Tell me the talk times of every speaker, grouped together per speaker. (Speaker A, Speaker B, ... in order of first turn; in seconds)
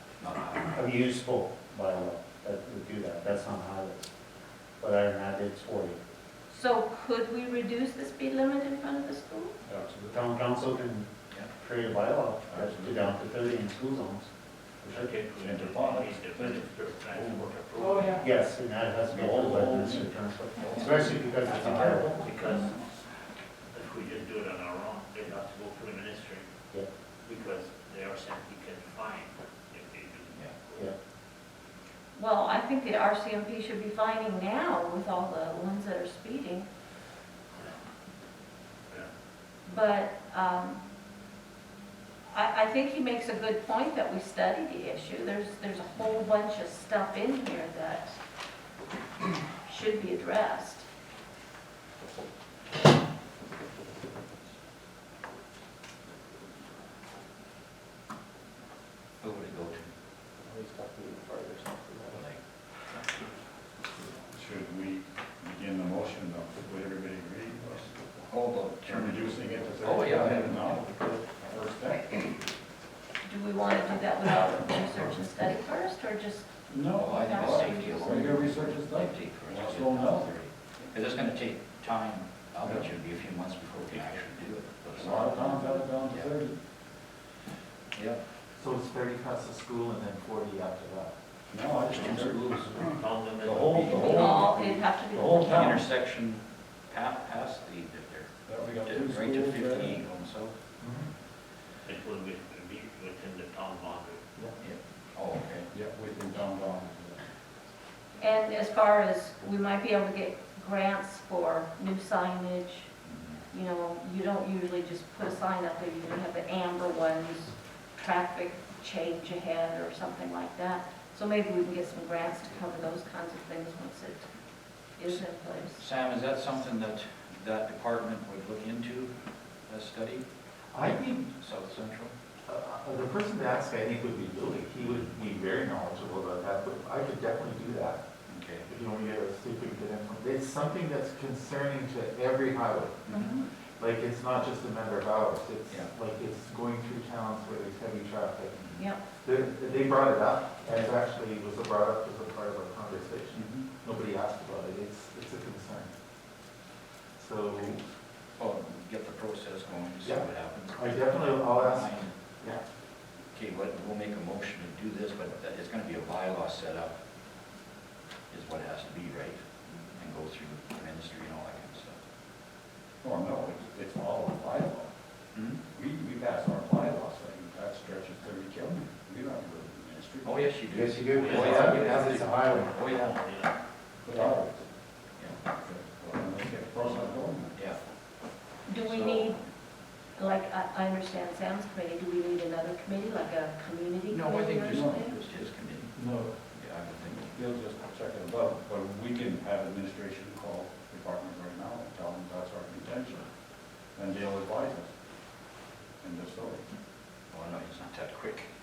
Speaker A: 0.2-0.8, 59.2-59.9, 62.1-62.4, 68.3-71.2, 76.9-86.3, 87.9-88.2, 91.8-92.9, 93.7-94.3, 95.5-100.5, 104.6-105.7, 113.0-113.4, 125.8-129.1, 129.7-130.2, 130.8-132.1, 138.3-138.7, 143.1-143.4, 148.6-148.9, 153.3-153.7, 158.4-162.1, 163.3-166.9, 168.3-169.4, 170.0-172.0, 175.3-175.7, 180.2-183.2, 187.6-187.8, 188.8-189.4, 194.1-195.9, 196.5-197.3, 207.3-208.5
Speaker B: 0.7-4.1, 4.8-6.0, 10.1-15.1, 18.1-22.2, 180.7-182.8
Speaker C: 6.5-9.6, 32.1-36.7, 39.7-40.8, 42.3-48.2, 49.6-50.9, 73.2-78.3, 85.4-85.8, 93.9-95.8, 108.2-112.9, 113.5-124.3, 125.0-125.8, 143.1-143.5, 188.7-189.4, 190.1-195.2
Speaker D: 9.7-10.2, 12.5-13.1, 15.4-18.2, 19.1-22.3, 64.3-68.1, 68.8-72.3, 76.7-80.4, 82.6-82.9, 85.0-86.5, 91.5-95.8, 98.5-100.0, 105.7-107.2, 173.0-174.9, 175.7-180.5, 184.1-184.7, 185.5-187.6, 194.7-195.1, 197.3-203.3, 204.0-204.9, 206.0-206.7
Speaker E: 14.8-18.2, 22.1-22.8, 23.7-26.5, 27.2-30.9, 92.9-94.2, 101.9-104.2, 181.2-183.6
Speaker F: 88.6-91.1, 100.8-101.1, 130.7-131.3, 132.5-138.0, 138.7-143.1, 143.8-148.6, 149.2-155.9, 157.2-157.8, 160.0-162.6, 181.4-181.8